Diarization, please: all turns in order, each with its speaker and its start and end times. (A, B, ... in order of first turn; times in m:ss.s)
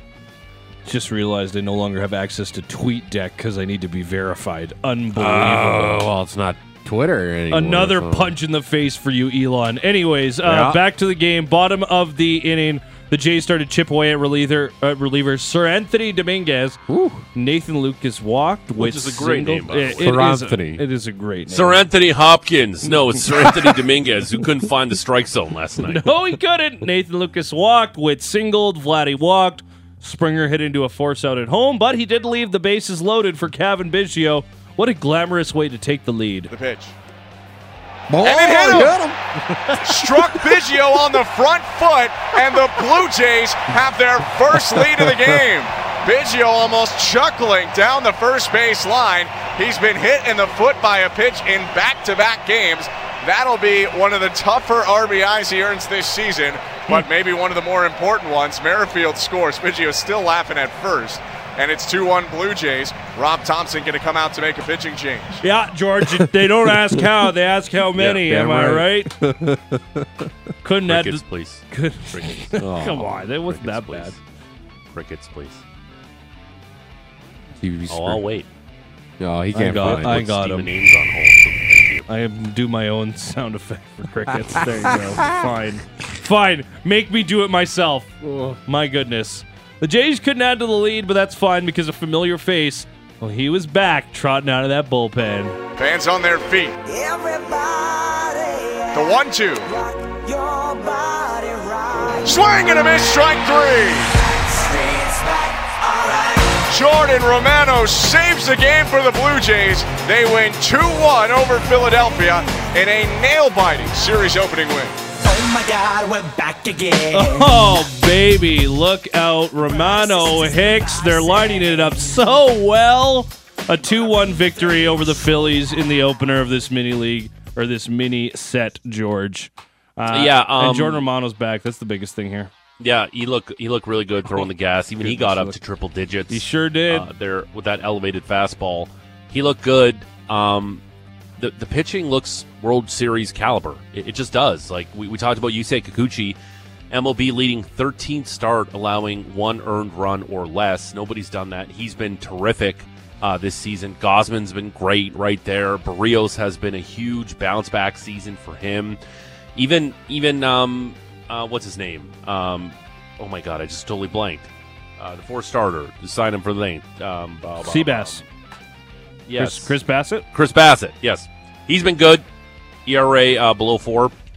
0:00.8-0:06.1 A
0:05.1-0:08.4 B
0:07.5-0:16.8 A
0:10.4-0:10.8 B
0:16.9-0:17.2 B
0:17.3-0:21.9 A
0:18.8-0:20.2 C
0:20.0-0:20.8 B
0:21.5-0:26.1 C
0:25.8-0:36.5 A
0:36.5-0:36.9 D
0:38.1-0:39.8 B
0:38.2-0:39.0 D
0:39.8-1:05.4 D
1:05.4-1:09.2 A
1:08.0-1:10.3 B
1:10.6-1:14.2 A
1:10.9-1:14.2 C
1:12.6-1:13.1 B
1:14.9-1:15.6 C
1:17.6-1:18.2 B
1:17.9-1:18.5 C
1:19.2-1:20.3 B
1:19.5-1:20.7 A
1:19.7-1:22.1 C
1:22.1-1:28.1 A
1:24.8-1:25.4 B
1:28.2-1:28.6 B
1:28.7-1:35.6 A
1:35.8-1:36.8 D
1:36.8-1:42.7 E
1:38.9-1:39.7 D
1:42.2-1:44.1 D
1:44.1-1:46.7 E
1:46.7-1:55.0 D
1:52.0-1:52.7 E
1:55.2-1:57.9 E
1:57.1-2:12.5 A
1:59.6-2:02.2 E
2:10.1-2:11.0 C
2:12.8-2:20.8 C
2:15.1-2:15.5 A
2:16.3-2:17.1 A
2:21.4-2:26.4 C
2:26.9-2:39.0 C
2:39.6-2:48.2 C
2:47.6-2:48.2 A
2:49.3-2:49.8 C
2:49.4-2:50.3 A
2:50.3-2:52.2 C
2:52.9-2:54.1 C